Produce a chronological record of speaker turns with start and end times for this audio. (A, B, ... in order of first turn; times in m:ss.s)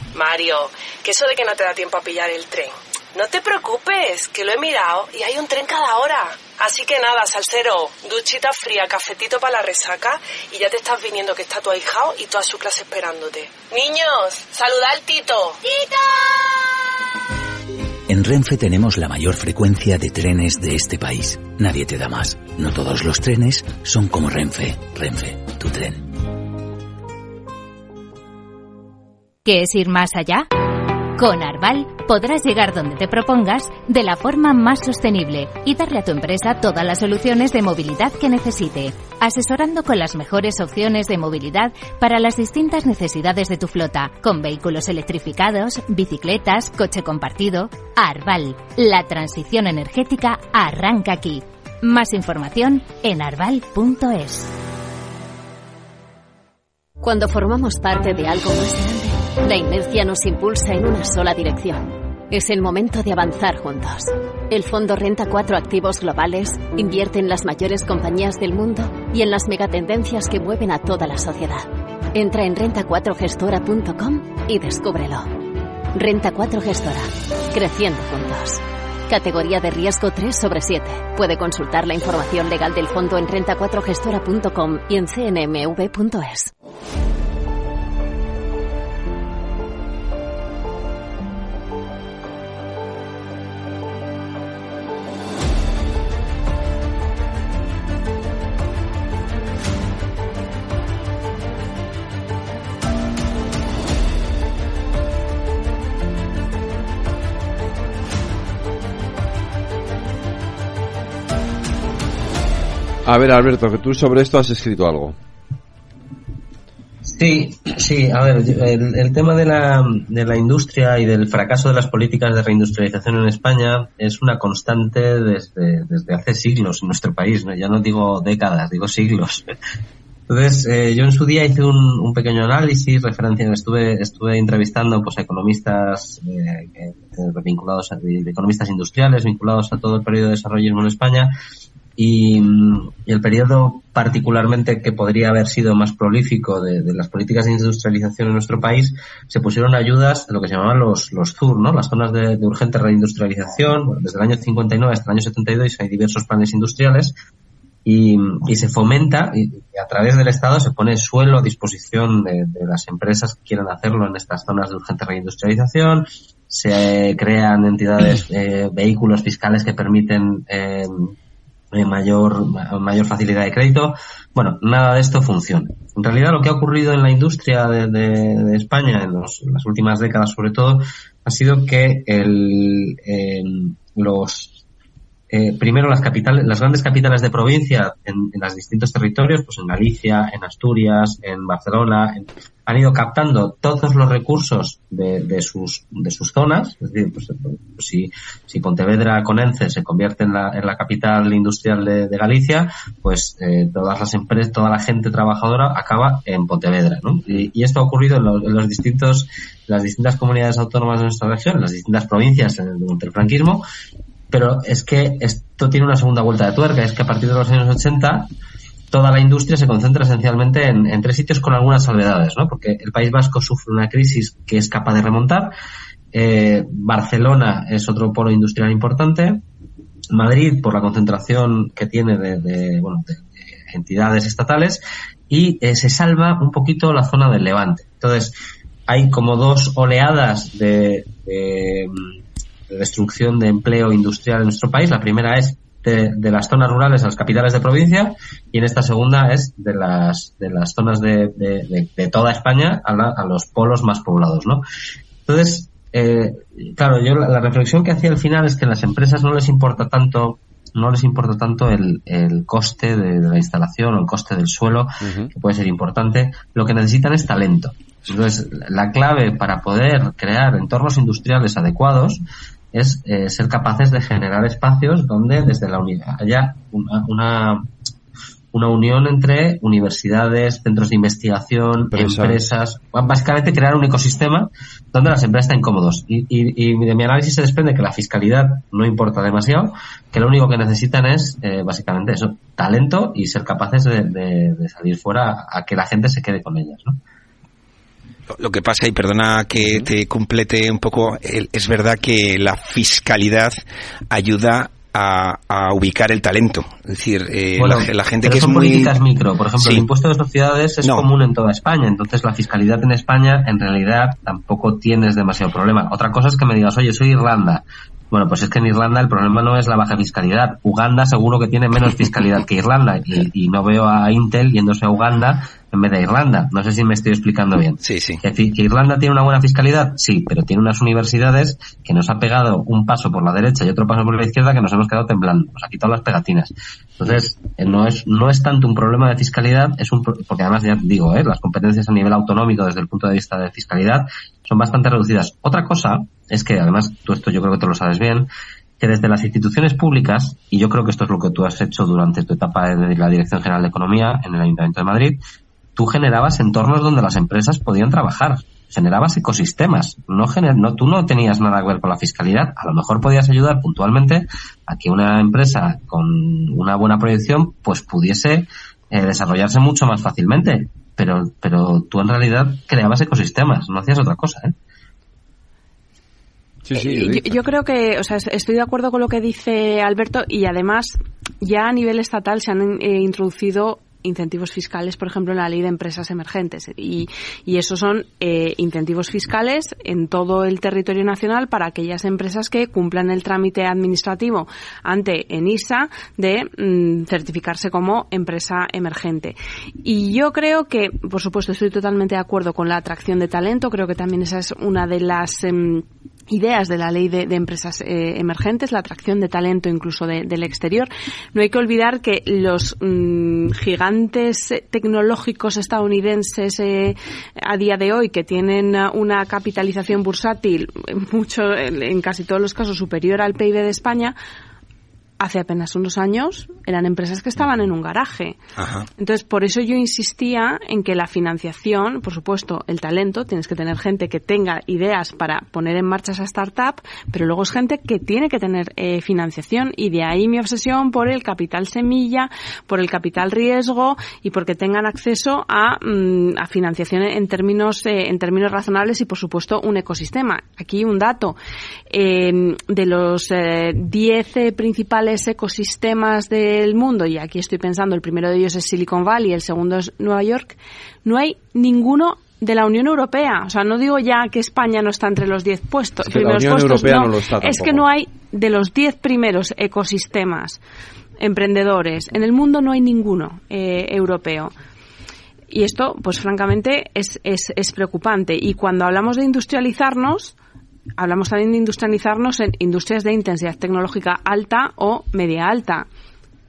0:00.1-0:15.9 A
0:18.1-0:26.0 B
0:29.4-0:30.5 C
0:31.2-0:54.5 C
0:57.0-1:15.3 D
1:15.9-1:26.5 D
1:53.0-1:55.2 E
1:57.0-2:09.5 F
2:10.3-2:21.3 F
2:22.0-2:37.1 F
2:37.8-2:51.1 F
2:51.7-3:04.6 F
3:05.3-3:33.6 F
3:34.3-3:38.3 F
3:38.9-3:45.5 F
3:46.1-3:49.4 F
3:50.1-3:58.3 F
3:58.9-4:02.2 F
4:02.7-4:14.6 F
4:15.2-4:32.2 F
4:25.0-4:25.3 E
4:32.7-4:37.7 F
4:38.5-4:57.0 F
4:41.9-4:42.4 E
4:58.3-5:09.0 G
5:07.6-5:48.3 F
5:09.6-5:09.9 G
5:10.8-5:11.1 G
5:27.8-5:28.2 G
5:48.8-5:55.2 F
5:55.8-6:14.5 F
6:16.6-6:17.3 E
6:16.7-7:04.2 H
7:05.2-7:08.4 H
7:08.6-7:08.9 G
7:09.0-7:31.4 H
7:31.9-7:50.6 H
7:46.0-7:47.9 E
7:51.2-7:54.5 H
7:55.5-8:00.3 H
8:01.0-8:05.9 H